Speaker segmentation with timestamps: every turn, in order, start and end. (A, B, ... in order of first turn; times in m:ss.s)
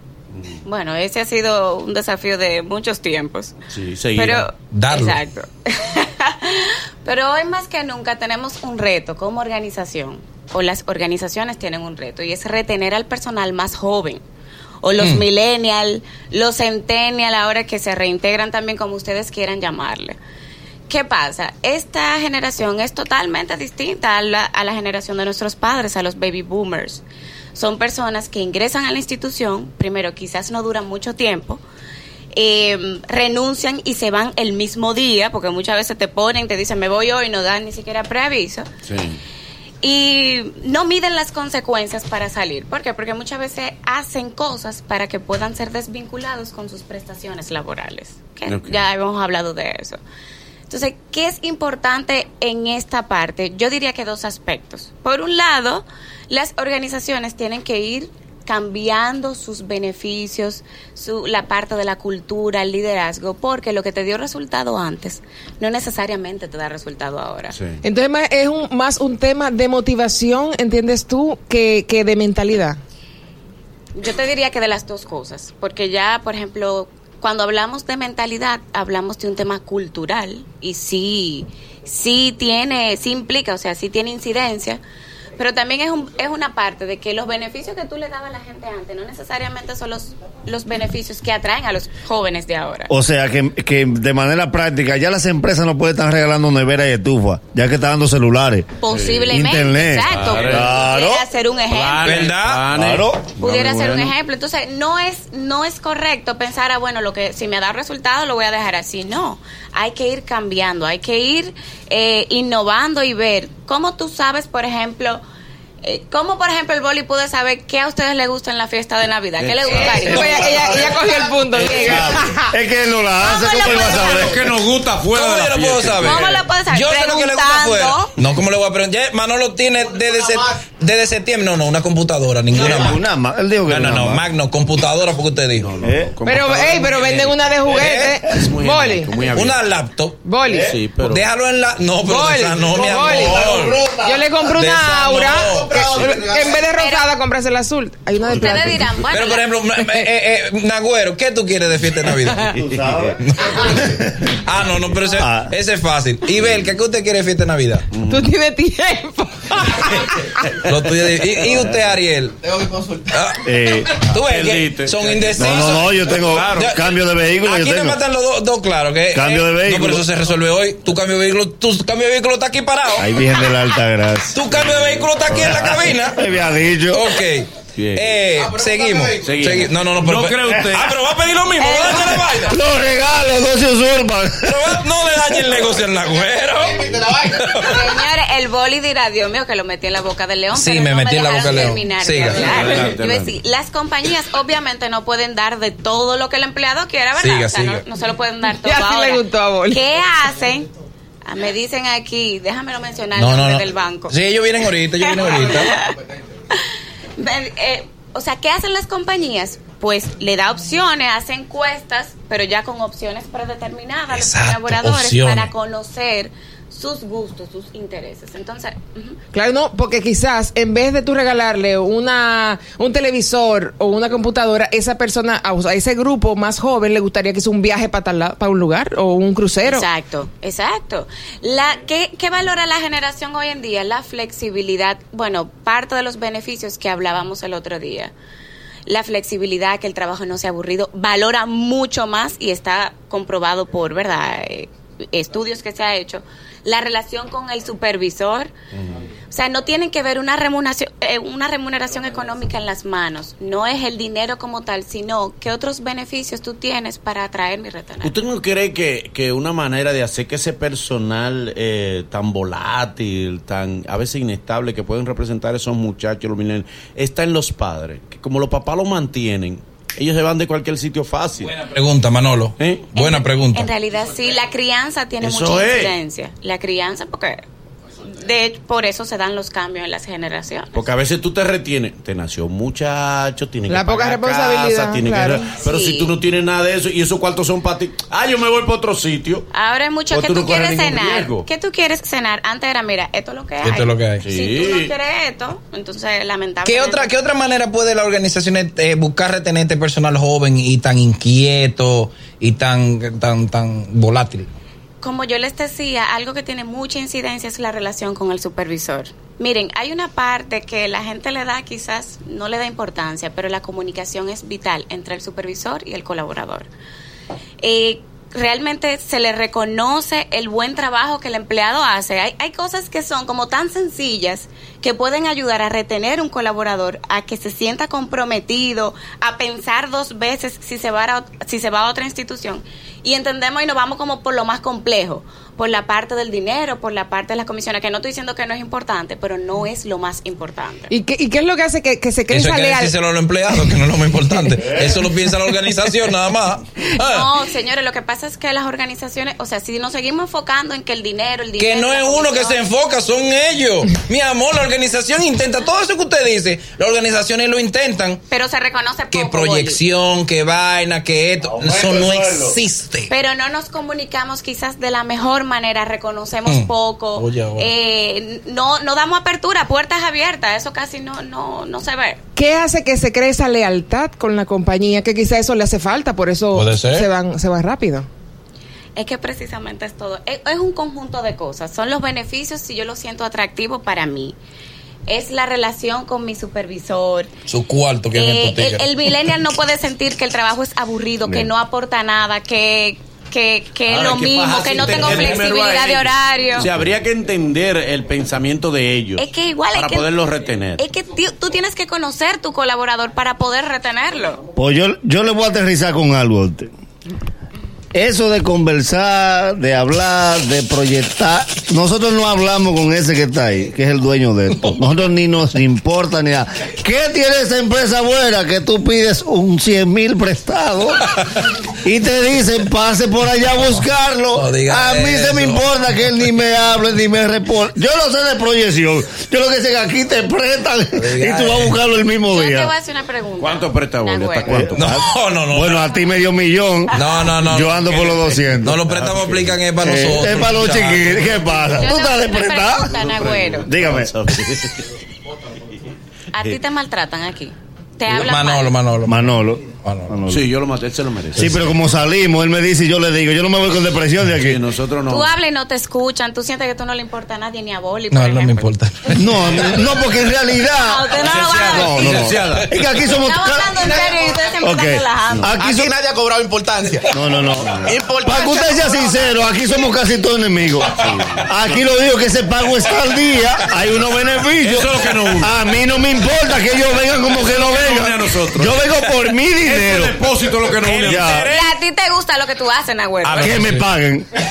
0:00.6-0:03.6 A
0:03.7-0:04.4 B
0:04.1-0:14.2 A
0:04.7-0:05.2 C
0:14.8-0:20.2 A
0:15.0-0:15.2 C
0:20.9-0:27.0 A
0:27.5-0:31.6 A
0:32.3-0:38.7 A
0:38.8-0:39.2 B
0:39.8-0:50.0 A
0:48.5-0:48.8 B
0:50.7-1:07.6 A
1:07.8-1:12.8 D
1:13.9-1:24.8 A
1:25.4-1:32.9 A
1:32.9-1:38.8 E
1:38.8-1:42.2 A
1:38.9-1:39.3 B
1:39.3-1:41.3 E
1:40.1-1:40.7 B
1:41.6-1:44.1 B
1:42.0-1:42.6 C
1:42.7-1:43.6 E
1:43.4-1:55.2 A
1:55.8-2:00.6 A
1:59.4-2:00.5 B
1:59.8-2:02.5 D
2:01.6-2:02.0 B
2:01.8-2:04.4 E
2:03.2-2:04.3 A
2:03.7-2:06.4 B
2:05.1-2:13.0 C
2:06.0-2:08.1 A
2:12.5-2:14.2 E
2:13.6-2:15.7 C
2:15.5-2:19.6 B
2:15.8-2:16.1 E
2:16.2-2:19.1 D
2:17.7-2:18.2 C
2:19.3-2:20.2 C
2:20.2-2:20.7 D
2:20.6-2:21.2 B
2:21.0-2:23.9 C
2:22.0-2:28.9 D
2:23.0-2:24.2 E
2:24.4-2:26.0 C
2:26.7-2:27.1 A
2:28.3-2:29.5 A
2:29.1-2:32.5 C
2:32.3-2:33.1 B
2:32.6-2:34.2 E
2:33.2-2:37.9 C
2:35.2-2:35.5 E
2:37.9-2:38.3 B
2:38.1-2:40.4 D
2:40.6-2:42.4 C
2:43.1-2:46.9 C
2:43.4-2:44.0 E
2:44.2-2:46.7 B
2:45.4-2:48.0 E
2:47.4-2:53.1 C
2:49.1-2:50.0 E
2:53.0-2:54.4 E
2:54.3-2:56.2 C
2:55.4-2:57.1 E
2:56.9-3:02.6 C
2:57.7-2:58.1 B
2:58.6-2:59.1 F
2:59.2-3:01.0 B
3:01.6-3:02.3 A
3:02.4-3:04.8 E
3:04.4-3:07.8 C
3:07.6-3:20.7 A
3:10.5-3:12.4 C
3:12.4-3:13.3 B
3:17.2-3:17.8 C
3:18.6-3:19.8 D
3:21.2-3:24.2 A
3:23.2-3:25.7 C
3:25.0-3:26.0 A
3:27.2-3:39.2 A
3:34.1-3:35.5 C
3:39.3-3:49.8 D
3:49.6-3:58.1 A
3:58.9-4:08.5 A
4:08.7-4:09.0 B
4:09.3-4:18.2 A
4:18.0-4:31.6 B
4:31.5-4:33.7 C
4:32.6-4:32.9 B
4:33.0-4:37.4 A
4:35.2-4:35.9 B
4:38.0-4:40.8 A
4:40.7-4:49.5 B
4:43.7-4:45.6 D
4:45.6-4:46.1 A
4:49.5-4:57.1 A
4:50.1-4:51.4 B
4:53.6-4:54.2 C
4:54.2-4:54.9 B
4:56.6-5:04.5 C
5:05.0-5:16.7 A
5:17.6-5:40.9 A
5:40.9-5:42.9 D
5:42.3-5:47.3 C
5:47.0-5:52.6 A
5:51.6-5:58.2 C
5:58.3-5:59.8 A
5:59.1-6:03.1 C
6:01.4-6:02.6 E
6:03.1-6:12.2 A
6:06.4-6:07.7 C
6:12.4-6:18.1 D
6:16.5-6:17.1 C
6:19.0-6:24.4 A
6:25.1-6:27.3 A
6:27.5-6:28.8 C
6:28.1-6:36.7 A
6:33.9-6:40.8 B
6:34.8-6:35.4 C
6:39.2-6:40.1 A
6:40.8-6:44.4 A
6:44.6-6:46.7 E
6:47.9-7:01.0 E
7:01.8-7:12.7 E
7:04.3-7:05.7 C
7:10.9-7:11.8 C
7:12.3-7:14.5 A
7:13.4-7:14.9 B
7:14.5-7:18.8 E
7:14.7-7:15.9 C
7:16.9-7:17.8 C
7:17.8-7:19.6 B
7:18.6-7:21.2 C
7:19.8-7:22.9 E
7:21.2-7:21.7 B
7:21.8-7:23.8 A
7:22.8-7:24.9 B
7:23.6-7:24.1 E
7:26.3-7:28.7 A
7:28.1-7:30.2 C
7:29.1-7:30.5 E
7:30.3-7:31.6 B
7:31.3-7:34.6 E
7:34.3-7:35.3 B
7:35.1-7:38.7 A
7:38.1-7:39.7 C
7:39.2-7:43.8 E
7:40.7-7:42.2 A
7:41.2-7:42.7 B
7:43.2-7:45.5 A
7:43.8-7:44.2 F
7:44.6-7:45.9 E
7:45.5-7:47.1 F
7:47.1-8:00.2 E
7:47.6-7:47.9 B
7:47.8-7:49.2 F
7:51.0-7:51.4 B
7:54.6-7:55.5 B
7:57.3-7:58.8 B
7:59.6-8:01.3 B
8:00.8-8:01.8 C
8:01.0-8:01.5 E
8:01.4-8:03.6 A
8:03.2-8:03.8 C
8:03.3-8:04.2 E